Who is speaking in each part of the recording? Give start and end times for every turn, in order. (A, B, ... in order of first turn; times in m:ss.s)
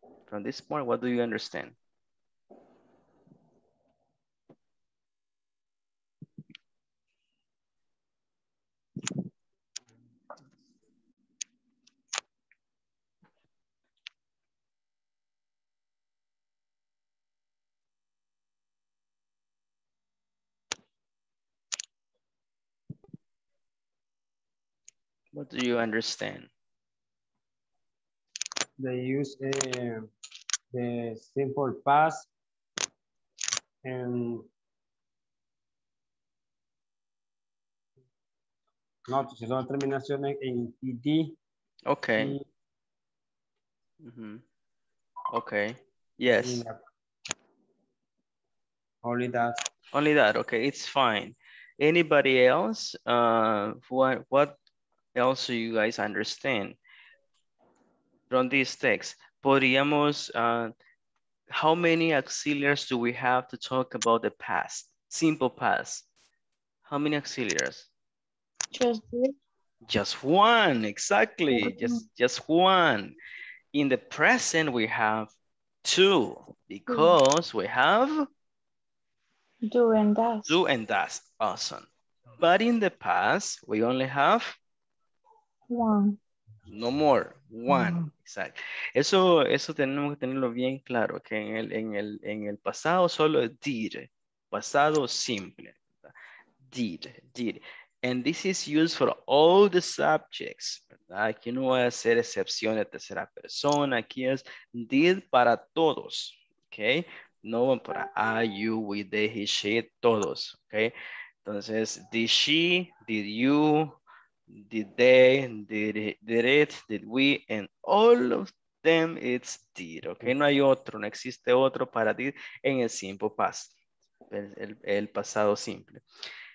0:00.3-0:01.8 A
0:25.3-0:26.5 A
0:28.8-0:30.1 B
0:30.7-0:32.3 B
0:33.8-0:34.5 B
0:39.1-0:41.4 B
0:41.9-0:42.3 A
0:42.2-0:42.4 B
0:44.0-0:44.4 A
0:45.3-0:46.6 A
0:46.4-0:46.8 B
0:49.0-0:49.6 B
0:49.9-0:54.6 A
0:55.2-0:56.8 A
0:58.3-1:00.7 A
1:01.5-1:06.0 A
1:06.8-1:07.9 A
1:09.9-1:13.1 A
1:11.6-1:12.0 C
1:13.7-1:15.3 A
1:15.8-1:18.3 A
1:16.9-1:17.1 C
1:19.7-1:20.5 C
1:20.4-1:24.6 A
1:25.7-1:26.2 C
1:26.7-1:36.1 A
1:36.6-1:50.9 A
1:51.4-1:54.0 A
1:54.5-2:03.7 A
2:04.3-2:06.0 A